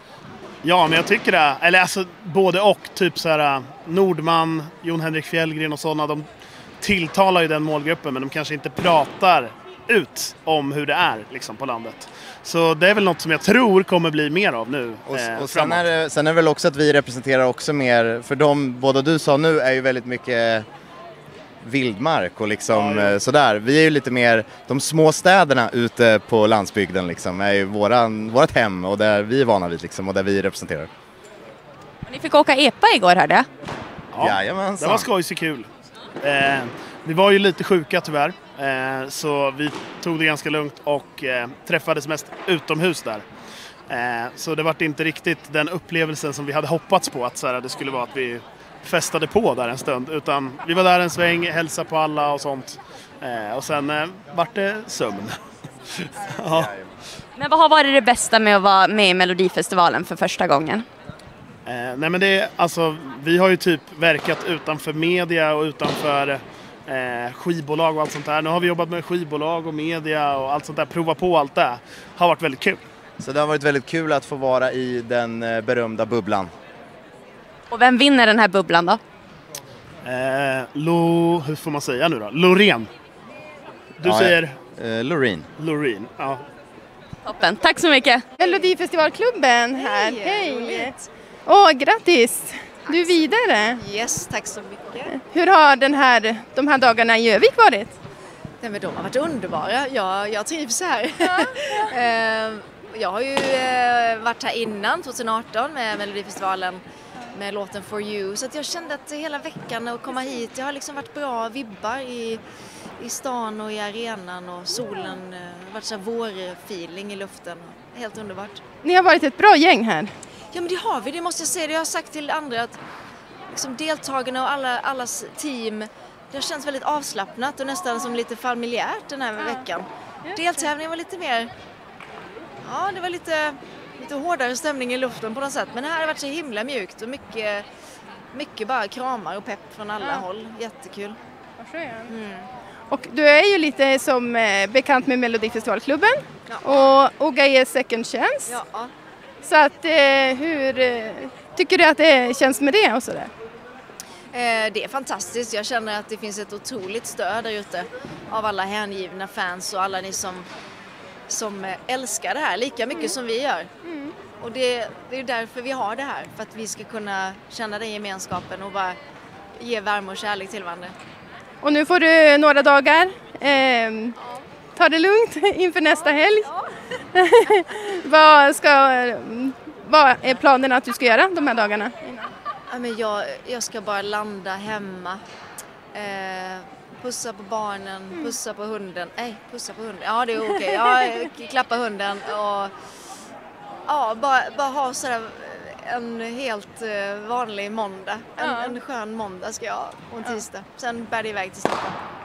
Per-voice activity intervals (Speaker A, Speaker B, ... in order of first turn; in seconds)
Speaker A: 0.6-6.3, 6.8-15.8, 22.7-23.2, 34.1-35.7, 36.2-43.2, 43.9-55.4, 56.0-56.7, 61.7-72.8, 80.0-82.9, 84.0-84.6, 85.6-86.4
Speaker B: 15.1-20.7, 21.6-30.9, 34.2-35.1, 73.2-76.5, 84.0-85.5
Speaker C: 32.1-33.5, 57.4-60.9, 77.7-79.0, 87.2-88.2
Speaker D: 88.4-93.9, 95.1-98.0, 101.2-102.0, 118.8-120.1, 129.3-129.7, 130.3-130.8, 140.0-140.3, 141.6-142.2, 142.9-148.6, 149.4-153.3, 162.9-163.2, 163.8-164.2, 171.6-174.2, 174.8-176.5, 177.2-182.3, 188.1-188.4, 190.4-191.3, 198.4-198.8, 200.2-200.4
Speaker E: 89.8-91.0, 92.9-93.2, 93.7-95.1, 98.6-112.4, 113.0-118.6, 120.5-122.8, 123.5-131.5, 132.6-137.7, 138.3-141.2, 142.1-142.5, 146.5-146.8, 148.5-148.9, 154.3-160.5, 161.3-163.7, 164.4-169.0, 169.6-171.0, 182.7-185.2, 185.9-192.7, 193.9-202.0